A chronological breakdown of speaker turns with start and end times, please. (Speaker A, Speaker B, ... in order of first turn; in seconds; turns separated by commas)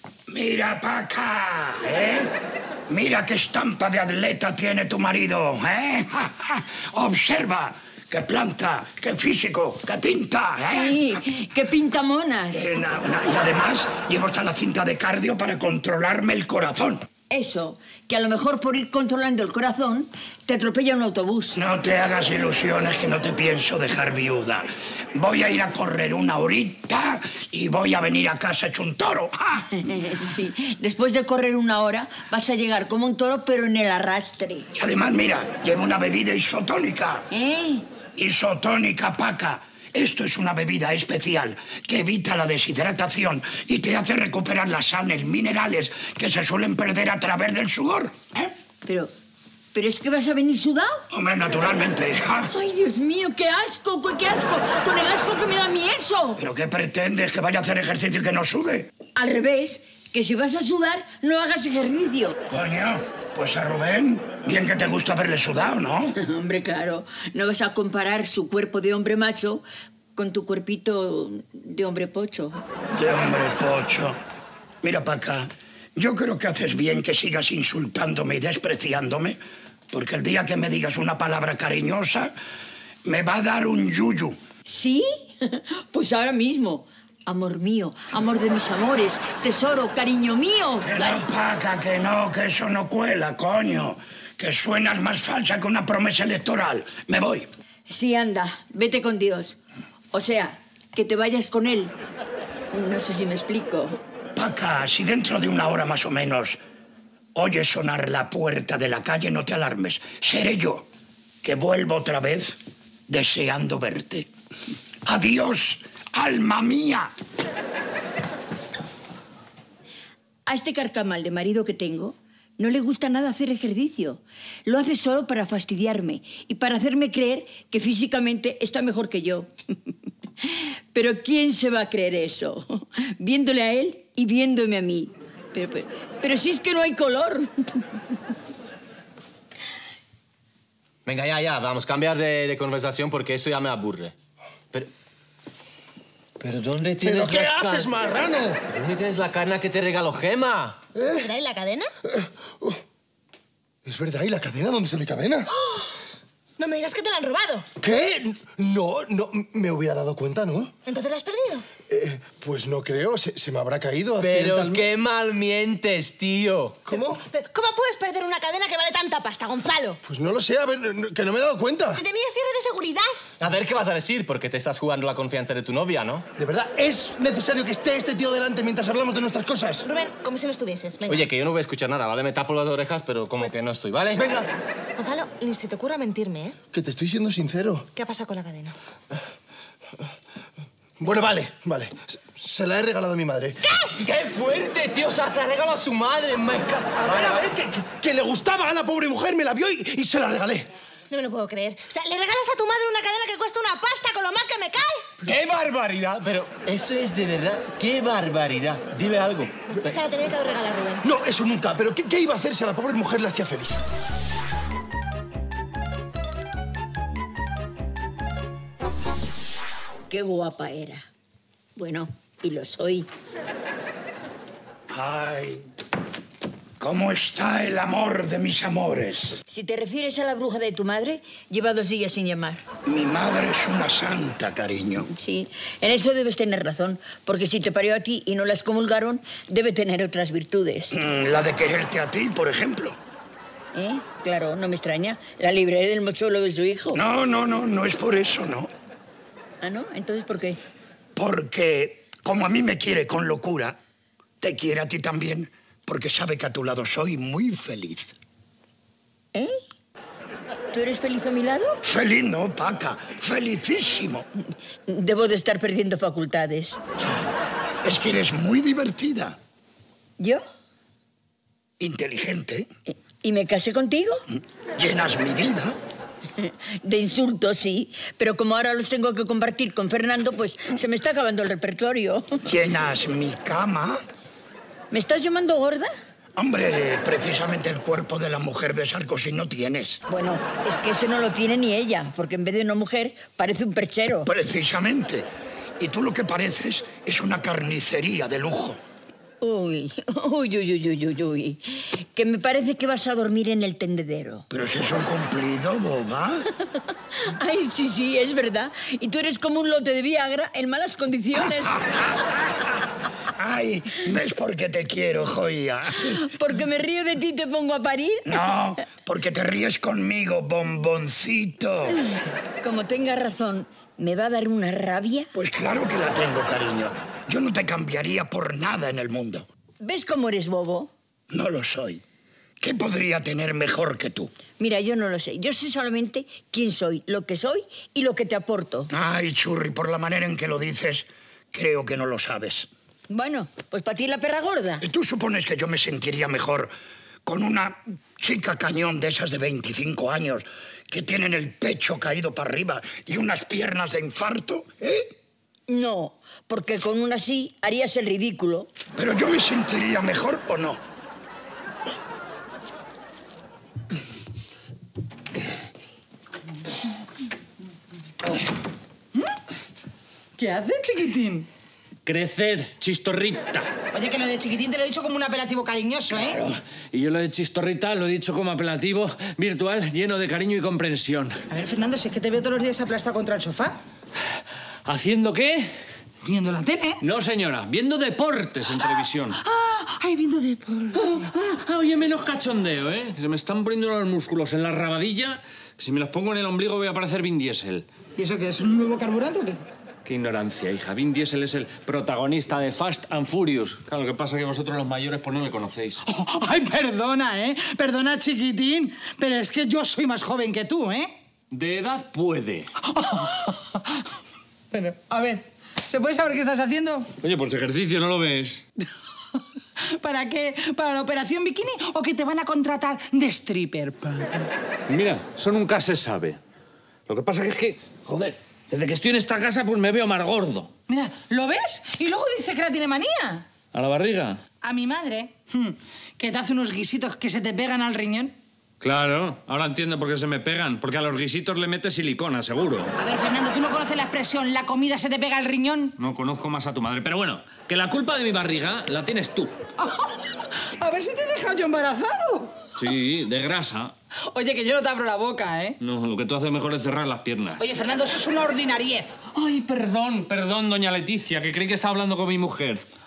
Speaker A: 0.3-2.3, Speaker A: 2.9-10.9, Speaker B: 10.7-12.7, Speaker A: 12.5-17.0, Speaker B: 17.3-21.6, Speaker A: 21.6-29.7, Speaker B: 29.7-34.7, Speaker A: 34.8-37.2, Speaker B: 37.3-37.9, Speaker A: 38.2-48.5, Speaker B: 48.9-49.1, Speaker B: 49.7-51.0, Speaker A: 51.1-52.5, Speaker B: 52.5-56.4, Speaker A: 56.4-58.9, Speaker B: 59.2-62.4, Speaker A: 62.5-66.2, Speaker B: 66.2-69.6, Speaker B: 70.2-72.6, Speaker A: 72.9-74.2, Speaker A: 74.8-79.4, Speaker A: 79.9-82.3, Speaker A: 83.0-84.4, Speaker B: 84.7-91.3, Speaker A: 90.8-97.5, Speaker B: 97.9-99.6, Speaker B: 100.1-101.9, Speaker B: 102.7-104.0, Speaker A: 104.3-106.6, Speaker A: 107.3-110.9, Speaker A: 111.4-112.6, Speaker A: 113.1-114.3, Speaker A: 115.1-117.1, Speaker B: 120.5-129.5, Speaker B: 130.4-137.9, Speaker C: 141.1-144.1, Speaker C: 146.4-147.9, Speaker D: 147.0-148.6, Speaker C: 148.7-150.8, Speaker D: 150.9-151.3, Speaker E: 151.1-151.9, Speaker D: 152.1-152.8, Speaker D: 153.8-155.5, Speaker E: 155.6-155.9, Speaker E: 156.6-157.7, Speaker D: 157.8-160.7, Speaker E: 160.9-161.7, Speaker D: 161.9-164.9, Speaker C: 164.2-166.8, Speaker D: 166.9-167.2, Speaker E: 166.9-170.0, Speaker D: 170.0-172.0, Speaker E: 171.9-173.2, Speaker C: 173.4-176.3, Speaker D: 176.4-179.9, Speaker E: 179.8-181.3, Speaker C: 181.1-184.3, Speaker D: 184.2-184.5, Speaker E: 184.2-186.6, Speaker D: 186.7-187.9, Speaker E: 187.9-188.8, Speaker D: 191.0-193.6, Speaker C: 193.9-197.5, Speaker D: 197.0-200.7, Speaker E: 201.1-205.2, Speaker C: 205.2-209.9, Speaker E: 209.7-211.0, Speaker D: 211.0-213.8, Speaker B: 220.1-221.1, Speaker B: 221.8-223.1, Speaker A: 224.9-225.7, Speaker A: 226.8-229.4, Speaker B: 229.5-232.6, Speaker A: 232.9-235.1, Speaker B: 235.1-241.0, Speaker A: 240.9-243.0, Speaker B: 243.7-247.0, Speaker A: 246.9-248.7, Speaker B: 249.6-250.6, Speaker A: 251.2-253.8, Speaker A: 254.4-258.1, Speaker B: 260.7-261.8, Speaker A: 261.9-264.2, Speaker B: 264.9-266.8, Speaker A: 267.8-269.4, Speaker A: 271.8-272.7, Speaker B: 272.9-274.2, Speaker A: 274.8-275.8, Speaker B: 276.4-282.4, Speaker A: 282.5-284.0, Speaker B: 284.9-285.9, Speaker A: 286.4-290.0, Speaker B: 290.1-294.3, Speaker A: 294.3-295.3, Speaker A: 295.8-298.8, Speaker B: 299.4-304.5, Speaker A: 304.5-306.5, Speaker B: 307.2-311.8, Speaker A: 311.9-312.4, Speaker A: 313.4-316.2, Speaker B: 316.1-318.4, Speaker A: 318.3-322.0, Speaker B: 322.6-325.3, Speaker A: 325.3-329.5, Speaker B: 329.8-330.9, Speaker A: 331.3-332.0, Speaker A: 332.6-334.3, Speaker B: 334.6-338.9, Speaker A: 338.9-342.7, Speaker B: 343.1-344.9, Speaker A: 344.8-346.7, Speaker A: 347.2-355.1, Speaker B: 355.7-358.7, Speaker A: 359.0-360.8, Speaker F: 370.4-371.5, Speaker G: 372.1-373.7, Speaker F: 373.9-376.4, Speaker G: 376.1-381.4, Speaker F: 381.5-383.8, Speaker G: 384.9-385.8, Speaker F: 386.2-387.0, Speaker G: 387.0-389.4, Speaker F: 389.4-391.3, Speaker G: 391.0-397.9, Speaker F: 398.2-399.6, Speaker G: 400.1-406.0, Speaker F: 406.1-411.1, Speaker G: 411.5-412.7, Speaker F: 412.9-413.8, Speaker F: 414.7-417.1, Speaker G: 417.2-418.6, Speaker F: 419.8-424.5, Speaker G: 424.9-426.4, Speaker G: 427.1-430.7, Speaker F: 430.9-433.5, Speaker G: 433.7-434.4, Speaker F: 434.6-438.4, Speaker G: 438.8-442.9, Speaker F: 443.0-445.9, Speaker G: 446.0-449.5, Speaker F: 449.8-452.6, Speaker G: 452.8-453.9, Speaker F: 454.3-455.8, Speaker G: 455.8-457.6, Speaker F: 457.6-459.1, Speaker G: 459.3-462.8